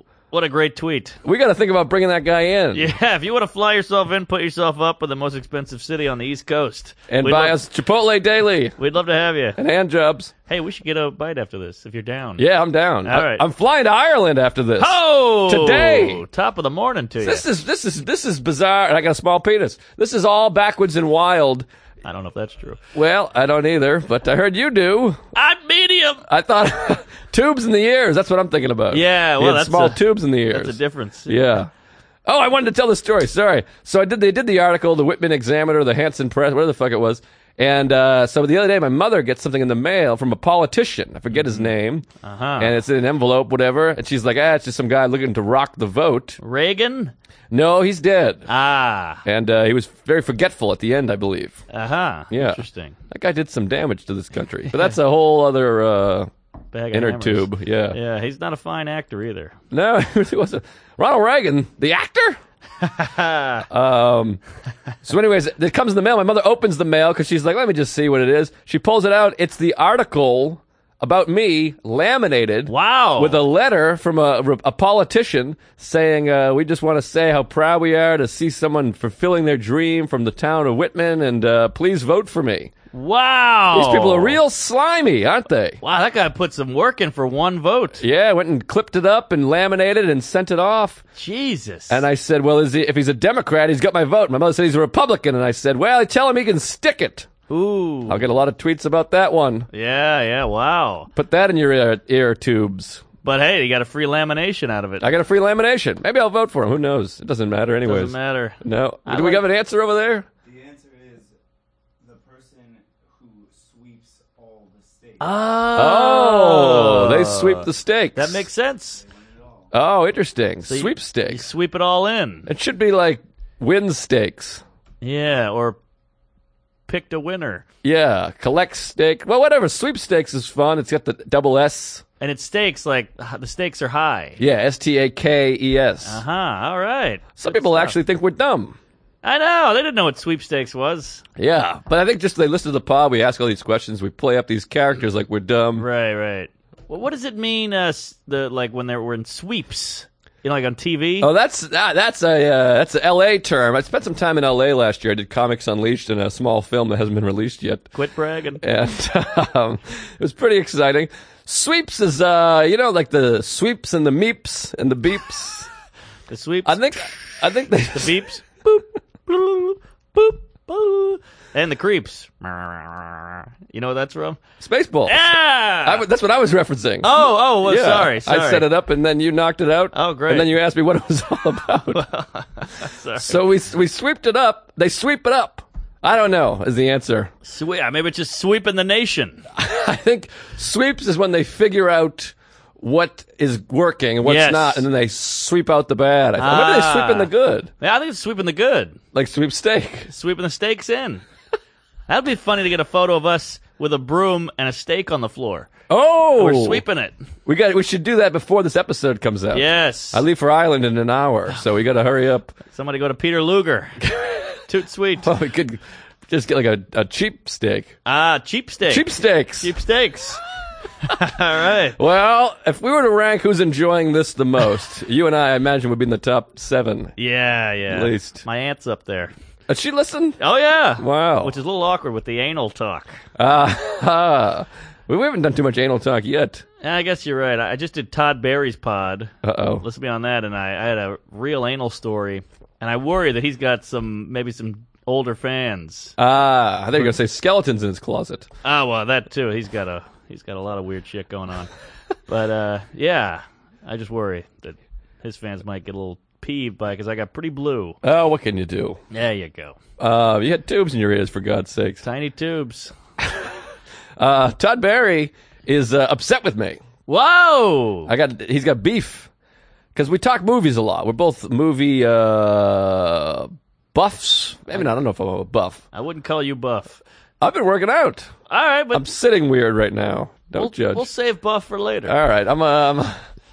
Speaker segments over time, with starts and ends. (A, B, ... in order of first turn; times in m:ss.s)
0:00.3-0:01.2 A
0:01.2-0:02.9 B
0:02.7-0:07.6 A
0:07.1-0:08.8 B
0:08.8-0:09.6 A
0:09.6-0:10.3 B
0:10.5-0:12.4 A
0:12.4-0:16.2 B
0:13.0-0:13.4 A
0:14.8-0:17.4 A
0:17.2-0:21.6 B
0:22.0-0:22.8 A
0:22.9-0:25.2 B
0:25.3-0:26.2 A
0:26.3-0:31.7 B
0:28.9-0:31.6 A
0:32.2-0:42.0 B
0:41.3-0:41.7 A
0:42.2-0:42.7 A
0:42.6-0:46.4 B
0:46.4-0:47.1 A
0:47.5-0:48.5 B
0:48.5-0:49.2 A
0:49.2-0:51.6 B
0:51.7-0:53.0 A
0:52.3-0:56.3 B
0:56.7-0:59.6 A
0:56.9-0:58.0 B
0:59.7-1:02.4 B
1:02.8-1:03.6 A
1:03.7-1:04.4 B
1:05.0-1:22.7 B
1:12.7-1:13.4 A
1:22.9-1:24.4 A
1:23.7-1:25.8 B
1:25.8-1:28.0 A
1:28.0-1:31.0 B
1:31.2-1:32.0 A
1:31.9-1:37.3 B
1:37.5-1:38.2 A
1:38.1-1:39.7 B
1:39.7-1:41.1 A
1:41.1-1:43.0 B
1:43.2-1:45.1 A
1:45.0-1:50.2 B
1:47.8-1:49.4 A
1:50.4-1:51.3 C
1:52.0-1:55.2 C
1:55.2-1:59.0 A
1:55.7-1:58.4 B
1:59.0-1:59.7 C
1:59.7-2:01.4 B
2:00.7-2:02.5 A
2:02.4-2:04.6 B
2:05.0-2:05.8 A
2:06.9-2:07.6 A
2:07.8-2:12.0 B
2:12.2-2:14.4 A
2:14.4-2:16.2 B
2:16.0-2:18.0 A
2:17.4-2:18.8 B
2:19.2-2:21.2 A
2:21.4-2:25.9 B
2:25.8-2:31.3 A
2:31.2-2:37.9 B
2:37.9-2:38.6 A
2:38.6-2:45.7 B
2:46.3-2:47.3 A
2:46.6-2:50.4 B
2:47.9-2:48.6 A
2:50.7-2:54.4 A
2:54.6-3:02.0 B
2:55.1-2:56.0 A
2:57.0-2:58.7 A
2:59.9-3:00.5 A
3:01.9-3:03.4 A
3:03.2-3:07.3 B
3:07.4-3:09.4 A
3:09.5-3:17.7 B
3:14.2-3:14.8 A
3:16.4-3:19.0 A
3:19.1-3:20.1 B
3:20.1-3:21.2 A
3:22.1-3:25.7 A
3:25.9-3:26.8 B
3:26.4-3:27.1 A
3:27.4-3:32.5 B
3:29.5-3:30.2 A
3:32.7-3:34.0 A
3:34.0-3:34.5 B
3:34.7-3:35.3 A
3:35.2-3:37.9 B
3:38.0-3:39.0 A
3:38.9-3:39.7 B
3:39.6-3:40.4 A
3:41.0-3:42.0 A
3:42.0-3:47.1 B
3:47.2-3:49.3 A
3:47.9-3:48.4 B
3:49.7-3:50.4 B
3:50.4-3:53.2 A
3:51.0-3:51.5 B
3:53.4-3:56.6 B
3:56.8-4:06.1 A
3:59.4-3:59.8 B
4:06.2-4:08.5 B
4:08.6-4:11.7 A
4:12.3-4:18.0 A
4:18.0-4:19.0 B
4:19.1-4:19.8 A
4:20.0-4:22.0 B
4:22.0-4:22.9 A
4:23.2-4:23.5 B
4:24.2-4:26.8 B
4:27.1-4:28.1 A
4:28.0-4:29.3 B
4:29.9-4:35.8 B
4:35.9-4:37.0 A
4:37.4-4:38.3 B
4:38.5-4:39.0 A
4:38.9-4:41.1 B
4:40.5-4:42.1 A
4:42.0-4:43.2 B